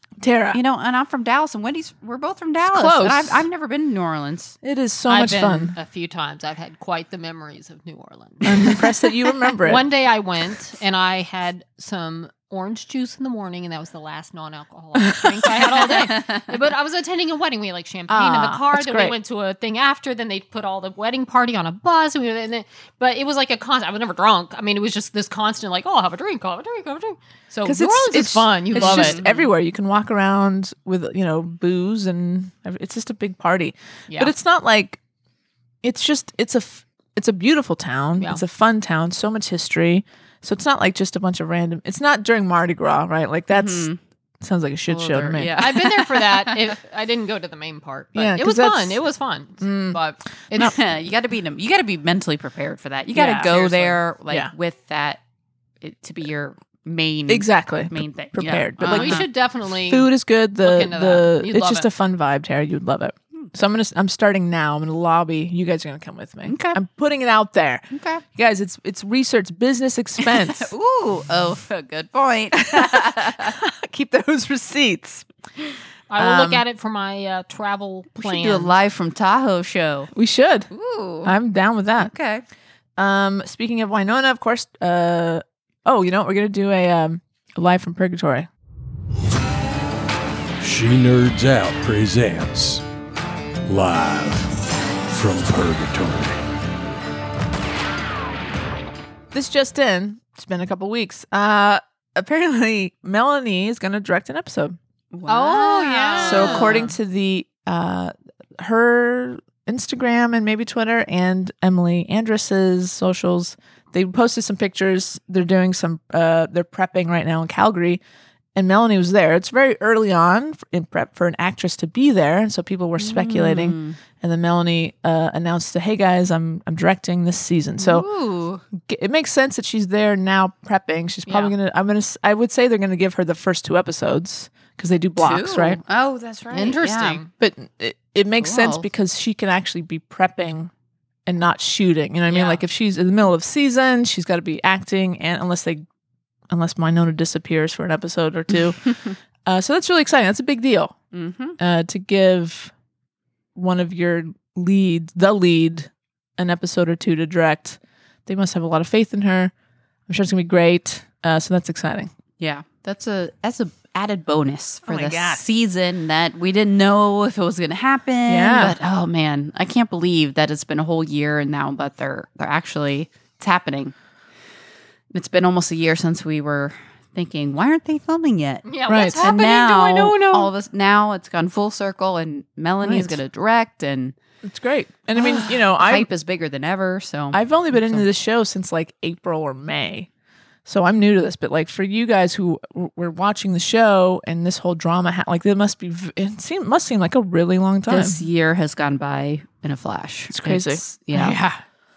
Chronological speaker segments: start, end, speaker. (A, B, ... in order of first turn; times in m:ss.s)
0:00.2-0:00.6 A
0:00.5-0:04.6 B
0:02.6-0:03.4 A
0:04.6-0:05.7 A
0:05.1-0:08.9 C
0:08.4-0:09.8 A
0:09.6-0:29.2 C
0:15.0-0:15.9 A
0:18.1-0:19.2 A
0:27.6-0:35.0 A
0:28.7-0:29.4 B
0:35.8-0:43.9 A
0:43.5-0:44.0 B
0:44.4-0:45.5 A
0:44.9-0:46.7 B
0:45.6-0:50.7 C
0:48.2-0:49.0 A
0:49.6-0:50.0 A
0:50.5-0:55.2 B
0:53.2-0:53.5 A
0:53.2-0:54.0 C
0:55.8-0:59.2 B
0:57.3-0:59.3 A
0:58.8-1:00.1 C
0:59.8-1:10.7 A
1:00.6-1:01.9 C
1:06.4-1:06.8 B
1:07.9-1:08.2 B
1:10.2-1:13.6 B
1:12.5-1:15.2 A
1:16.1-1:18.7 C
1:16.2-1:16.6 A
1:18.2-1:20.1 B
1:20.1-1:20.7 A
1:20.7-1:21.3 B
1:21.2-1:22.1 A
1:22.0-1:22.4 B
1:23.0-1:28.5 A
1:30.6-1:32.8 D
1:33.7-1:34.6 D
1:35.1-1:36.4 D
1:39.3-1:44.8 A
1:45.1-1:46.9 B
1:45.3-1:47.0 C
1:46.2-1:58.0 A
1:58.5-2:08.1 A
2:03.0-2:04.0 B
2:07.8-2:08.6 B
2:08.7-2:15.8 A
2:11.3-2:11.5 C
2:15.2-2:17.2 B
2:16.5-2:17.3 C
2:17.4-2:20.7 A
2:18.4-2:18.8 B
2:21.2-2:25.8 A
2:22.3-2:22.6 C
2:26.5-2:30.9 A
2:28.8-2:29.1 B
2:31.1-2:31.6 B
2:31.6-2:32.7 A
2:33.5-2:39.5 A
2:40.1-2:42.1 A
2:42.4-2:53.9 B
2:44.8-2:45.4 A
2:48.3-2:48.8 A
2:55.1-3:04.2 B
2:58.6-3:00.5 C
2:58.9-2:59.2 A
3:02.8-3:03.2 A
3:04.4-3:06.1 A
3:05.2-3:08.0 B
3:07.3-3:10.1 A
3:10.6-3:18.2 A
3:17.9-3:21.4 B
3:20.3-3:21.6 A